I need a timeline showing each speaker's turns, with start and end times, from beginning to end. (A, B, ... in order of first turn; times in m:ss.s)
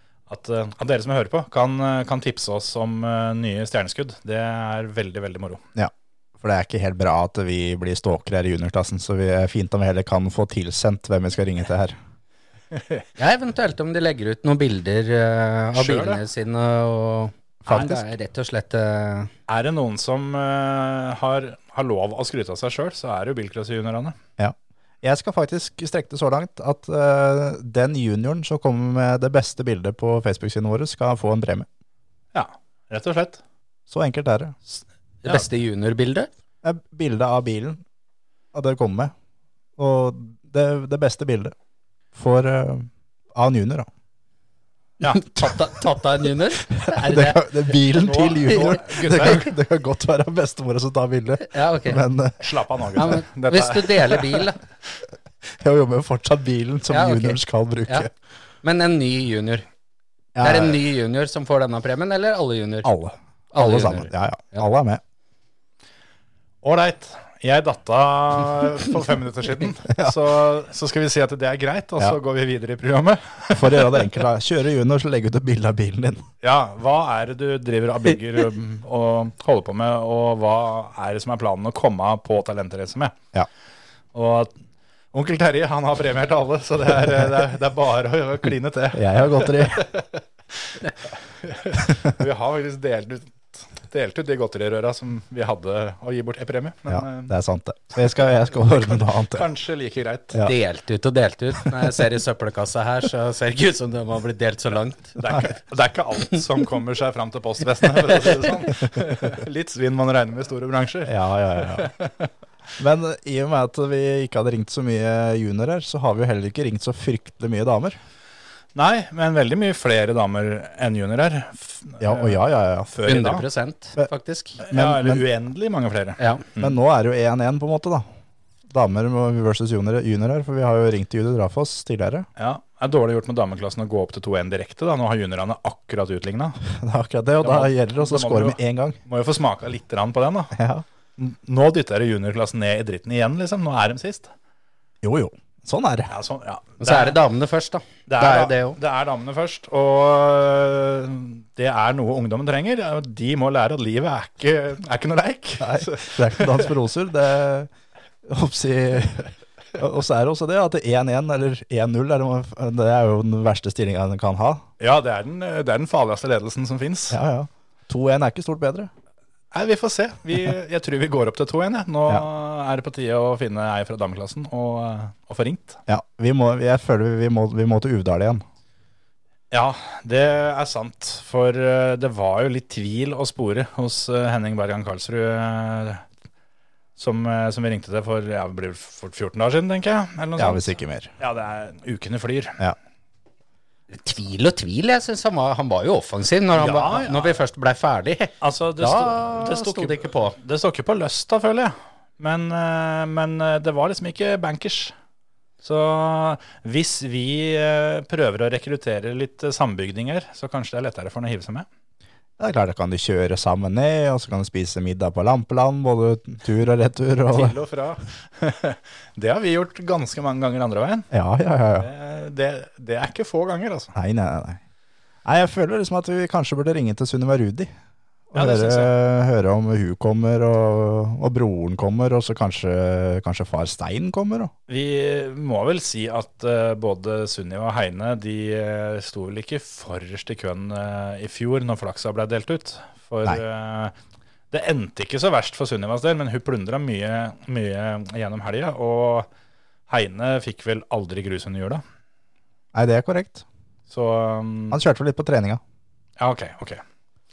0:00.3-0:05.6 A
0:05.8-0:12.0 B
0:12.7-0:13.0 A
0:13.2-0:19.3 C
0:15.8-0:16.2 A
0:17.6-0:18.0 B
0:19.5-0:24.2 A
0:24.4-0:31.7 B
0:32.3-0:33.4 A
0:33.9-0:34.6 B
0:35.2-0:36.3 C
0:36.6-0:37.8 B
0:38.5-0:39.1 B
0:39.8-0:41.5 B
0:42.2-0:43.9 B
0:45.0-0:45.3 A
0:45.1-0:47.4 C
0:46.7-0:52.4 B
0:48.0-0:49.5 A
0:51.5-0:52.0 C
0:52.4-0:54.4 A
0:53.0-0:54.6 C
0:55.6-0:58.1 B
0:56.9-0:58.1 C
0:58.6-0:59.7 C
1:00.3-1:00.8 B
1:00.4-1:02.9 C
1:02.8-1:05.0 B
1:03.5-1:04.6 C
1:06.6-1:14.0 A
1:13.5-1:16.2 B
1:16.4-1:23.2 A
1:24.1-1:24.5 A
1:25.1-1:30.8 A
1:28.9-1:29.9 B
1:31.4-1:37.3 A
1:36.9-1:39.5 B
1:38.0-1:40.4 A
1:40.4-1:45.2 C
1:45.2-1:52.3 A
1:51.0-1:51.9 B
1:52.8-1:58.0 B
1:58.8-2:02.4 A
2:02.0-2:02.9 B
2:02.9-2:03.4 A
2:03.0-2:04.6 C
2:04.6-2:06.8 A
2:04.7-2:05.2 B
2:06.6-2:08.0 B
2:08.7-2:12.3 B
2:12.4-2:16.6 A
2:16.8-2:19.0 B
2:17.4-2:20.5 A
2:20.5-2:20.8 B
2:21.2-2:24.3 A
2:25.0-2:26.1 B
2:26.1-2:27.2 A
2:26.8-2:28.8 C
2:28.1-2:36.7 A
2:35.6-2:37.7 B
2:38.2-2:44.6 B
2:44.8-2:47.2 A
2:47.1-2:48.9 B
2:49.5-2:55.8 A
2:55.9-2:58.4 B
2:59.5-3:06.0 A
3:07.0-3:12.6 A
3:10.4-3:11.1 B
3:13.9-3:20.4 C
3:16.5-3:17.3 A
3:18.4-3:24.9 A
3:25.6-3:31.7 A
3:32.4-3:37.6 B
3:37.3-3:41.1 A
3:41.1-3:41.9 B
3:41.8-3:43.9 A
3:44.0-3:44.6 B
3:45.2-3:47.7 B
3:48.3-3:54.5 B
3:48.3-3:48.9 A
3:54.7-4:03.9 A
4:04.5-4:09.3 A
4:09.9-4:11.8 A
4:12.7-4:13.4 B
4:13.9-4:14.8 A
4:14.7-4:15.6 B
4:16.2-4:16.8 A